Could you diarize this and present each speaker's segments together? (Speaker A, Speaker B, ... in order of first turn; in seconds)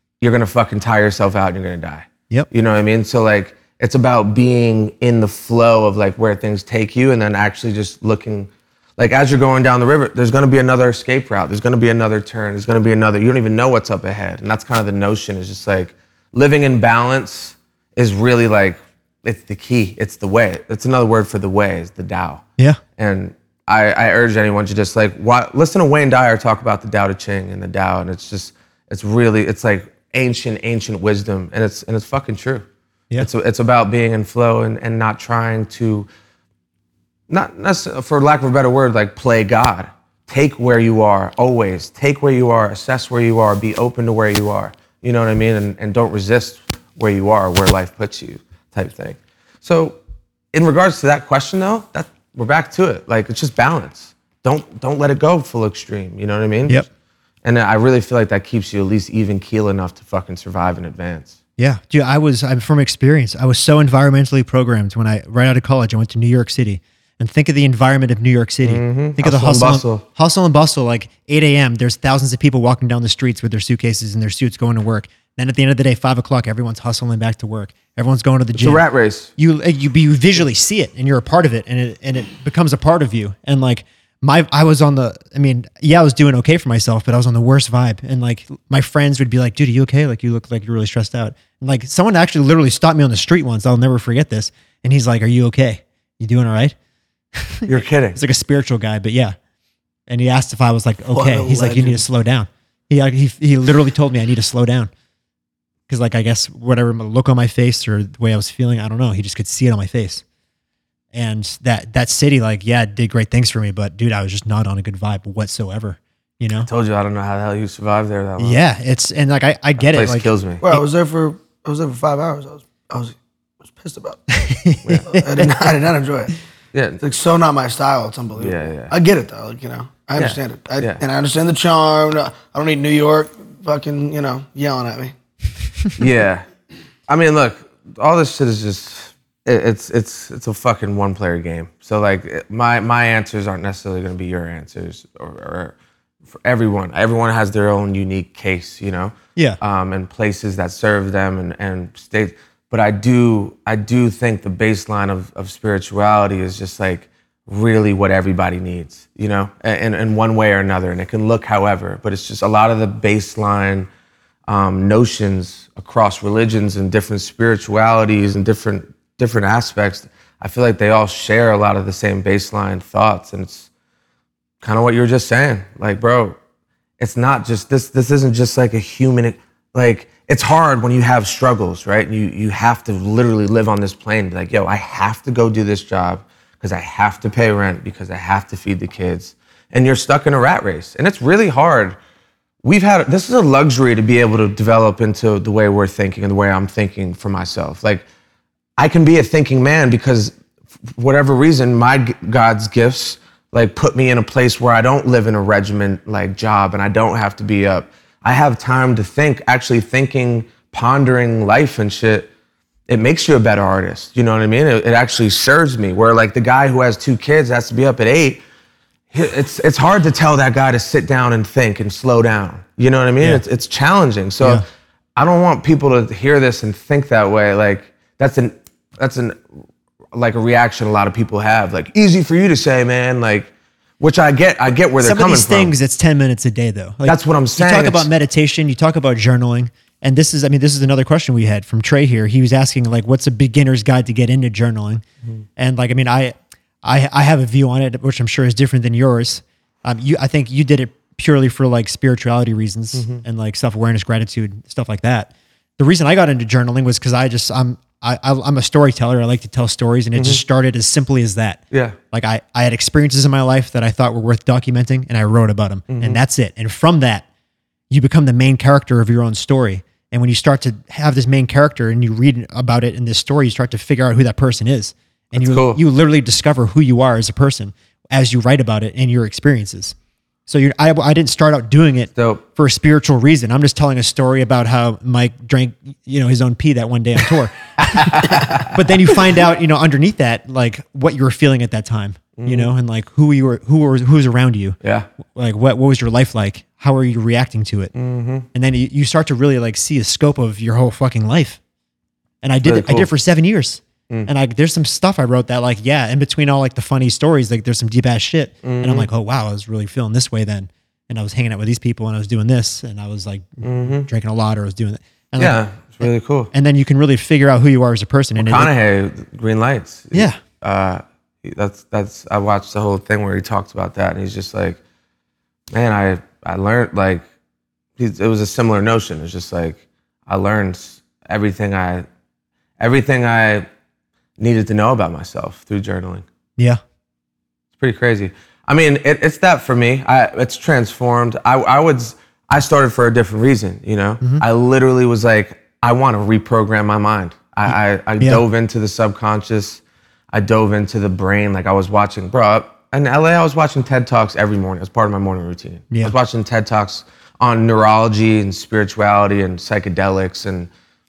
Speaker A: 0.2-22.4, 23.0-36.1, 37.3-50.0, 50.5-56.8, 57.4-61.4, 68.6-70.0, 78.6-79.3, 97.7-98.2, 116.7-118.6, 119.8-120.6, 124.8-125.6, 126.7-127.0, 128.4-128.9, 130.2-131.0, 136.0-136.4, 137.1-145.8, 146.3-163.9, 164.5-173.7, 174.6-176.4, 177.0-192.0, 192.6-198.1, 198.8-200.3, 200.9-212.3, 212.9-218.4, 219.1-224.6, 225.2-229.6, 230.1-235.7, 237.1-238.1, 252.9-253.2, 260.1-260.4, 261.7-262.0, 265.9-266.2, 275.3-275.8, 282.1-282.4, 287.8-288.9, 292.4-292.7, 294.8-295.1, 297.9-298.5, 302.6-303.1, 308.6-309.1, 313.6-314.1, 315.4-316.5, 318.4-324.8, 325.7-327.2, 328.0-332.1, 332.8-333.7, 334.4-336.3, 337.8-349.8, 350.3-360.7
Speaker B: 61.6-78.8, 79.4-96.8, 97.4-99.4, 100.1-104.9, 105.9-110.2, 111.1-116.7, 118.4-120.8, 124.3-125.4, 235.0-245.0, 245.6-267.2, 267.9-279.9, 280.5-294.8, 295.3-297.9, 298.5-301.6, 302.4-318.7, 320.1-320.4
Speaker C: 101.1-102.0, 120.6-123.2, 123.7-124.4, 125.1-126.3, 127.0-135.1